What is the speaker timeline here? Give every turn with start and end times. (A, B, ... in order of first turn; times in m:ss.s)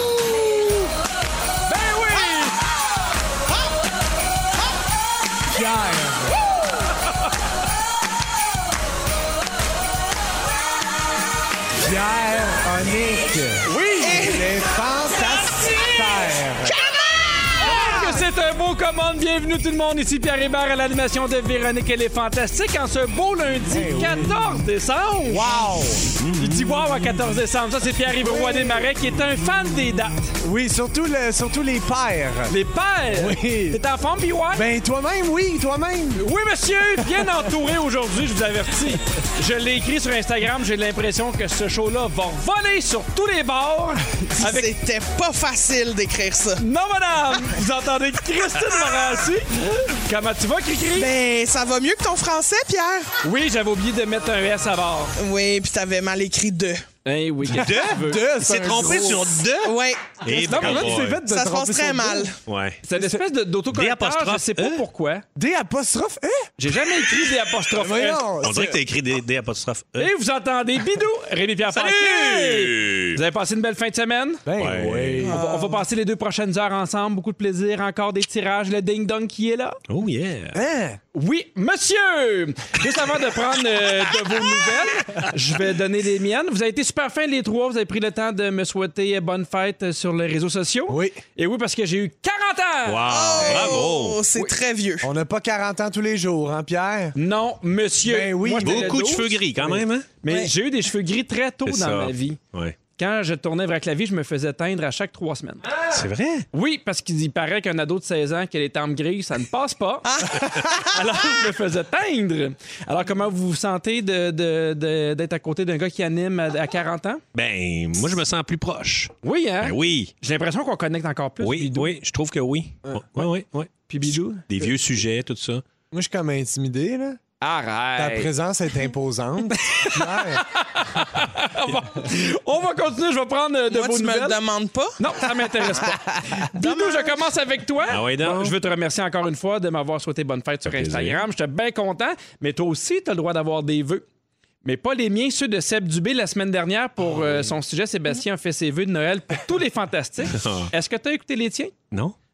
0:01.7-0:02.6 A
0:05.5-0:06.4 B
0:11.8-0:16.8 B
0:13.6-0:14.2 A
0:14.0-0:14.6 C
0:17.5-0:18.2 C
0:17.6-0:25.6 A
0:23.7-0:24.6 B
0:25.2-0:26.1 B
0:26.2-0:26.6 D
0:26.4-0:30.3 A
0:28.2-0:28.9 B
0:30.4-0:32.6 B
0:32.5-0:34.6 A
0:33.1-0:33.8 B
0:34.5-0:36.2 B
0:36.2-0:44.7 A
0:44.4-0:46.6 C
0:46.6-0:51.1 A
0:50.9-0:53.1 C
0:53.2-0:55.2 A
0:55.2-0:56.8 C
0:57.0-0:58.2 A
0:57.5-0:59.4 B
0:57.6-1:01.2 D
0:59.6-1:00.1 C
1:00.3-1:01.2 A
1:00.4-1:02.3 B
1:01.3-1:02.4 C
1:02.5-1:02.8 D
1:02.8-1:05.2 A
1:03.0-1:03.2 B
1:03.7-1:04.8 D
1:05.4-1:06.5 B
1:06.6-1:08.3 A
1:07.7-1:08.8 B
1:08.4-1:10.1 D
1:10.0-1:14.4 A
1:11.7-1:13.2 D
1:14.5-1:15.4 B
1:14.6-1:15.2 D
1:15.2-1:15.8 C
1:15.3-1:19.8 A
1:19.9-1:20.6 D
1:20.5-1:21.0 B
1:21.1-1:33.8 A
1:30.9-1:31.2 B
1:32.9-1:34.2 D
1:33.1-1:35.1 C
1:35.0-1:37.2 B
1:37.2-1:39.4 A
1:38.0-1:39.0 B
1:38.6-1:40.1 D
1:40.2-1:42.4 A
1:41.7-1:42.8 D
1:43.0-1:45.7 A
1:45.8-1:46.5 D
1:46.5-1:50.1 A
1:50.1-1:51.0 C
1:50.7-1:57.2 A
1:57.3-2:00.1 D
1:59.2-2:01.9 A
2:01.4-2:05.6 D
2:02.9-2:03.2 B
2:03.9-2:04.4 A
2:05.9-2:07.2 B
2:07.4-2:08.3 A
2:08.0-2:10.5 B
2:09.7-2:14.4 A
2:13.7-2:15.0 C
2:15.0-2:24.0 A
2:16.6-2:17.3 C
2:17.9-2:18.6 D
2:20.7-2:21.2 D
2:24.6-2:31.7 A
2:30.3-2:30.7 D